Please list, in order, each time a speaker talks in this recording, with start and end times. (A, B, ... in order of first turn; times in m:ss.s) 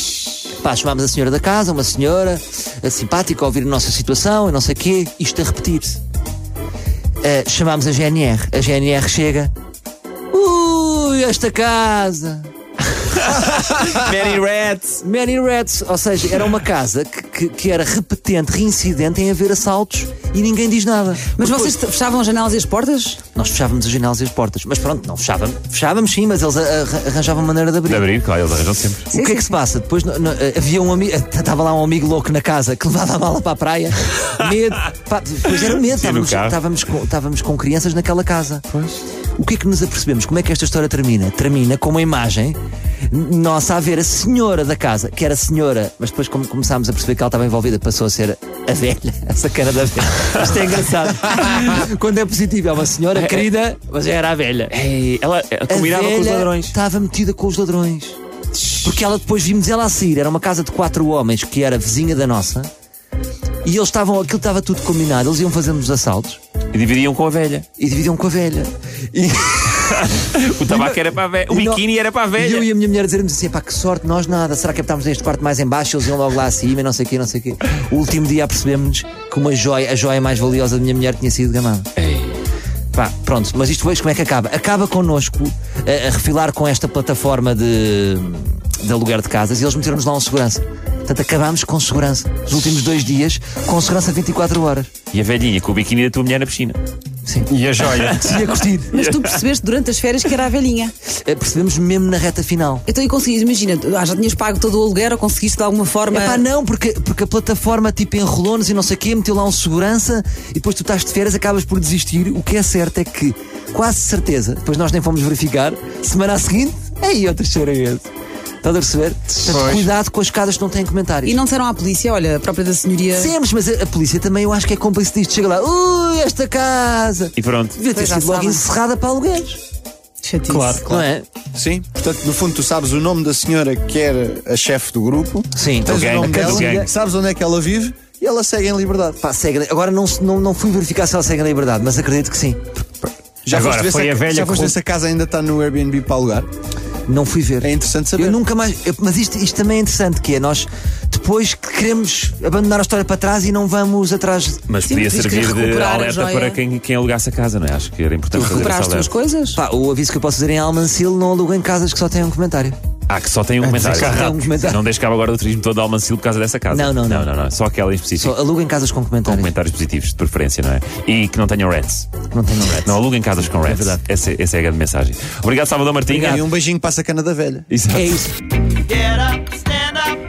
0:00.6-0:06.0 A
0:07.2-0:09.5 A
0:10.3-0:12.5 A
0:13.2-0:15.0 B
0:15.0-0:21.7 A
0:21.4-0:23.2 C
0:23.3-0:28.1 A
0:27.8-0:29.1 B
0:29.1-0:38.6 A
0:29.1-0:29.5 C
0:35.9-0:36.6 B
0:38.7-0:39.0 B
0:39.3-0:54.7 A
0:53.1-0:53.5 B
0:54.7-0:56.7 B
0:55.7-0:58.2 A
0:58.8-1:02.7 A
1:03.6-1:06.4 A
1:06.7-1:07.7 B
1:07.8-1:10.1 A
1:09.7-1:12.6 B
1:10.7-1:11.8 A
1:12.4-1:21.9 A
1:22.0-1:22.4 B
1:22.9-1:34.9 A
1:35.1-1:36.8 B
1:37.2-1:37.5 A
1:37.5-1:38.2 D
1:37.8-1:39.4 B
1:38.1-1:38.9 A
1:38.9-1:40.9 C
1:41.2-1:42.8 A
1:42.9-1:46.4 C
1:46.1-1:58.1 A
1:58.6-2:01.4 A
2:01.2-2:03.3 C
2:03.1-2:09.6 A
2:07.4-2:07.8 B
2:07.8-2:08.7 C
2:10.2-2:10.9 C
2:10.5-2:10.8 D
2:10.8-2:19.2 E
2:10.9-2:11.2 A
2:15.5-2:16.9 A
2:15.8-2:16.9 B
2:19.2-2:22.8 A
2:23.4-2:26.5 E
2:23.5-2:24.7 D
2:27.1-2:34.6 A
2:27.6-2:28.4 E
2:34.7-2:39.1 B
2:34.8-2:36.6 C
2:38.3-2:39.6 C
2:39.5-2:42.8 A
2:43.1-2:48.3 B
2:43.6-2:44.8 A
2:46.7-2:47.3 A
2:48.2-2:49.5 A
2:49.2-2:52.1 B
2:52.3-2:53.0 A
2:52.8-2:56.5 B
2:53.5-2:54.0 A
2:56.1-2:56.4 A
2:56.2-2:57.7 E
2:57.7-2:58.3 B
2:57.9-2:58.3 A
2:58.9-3:00.1 B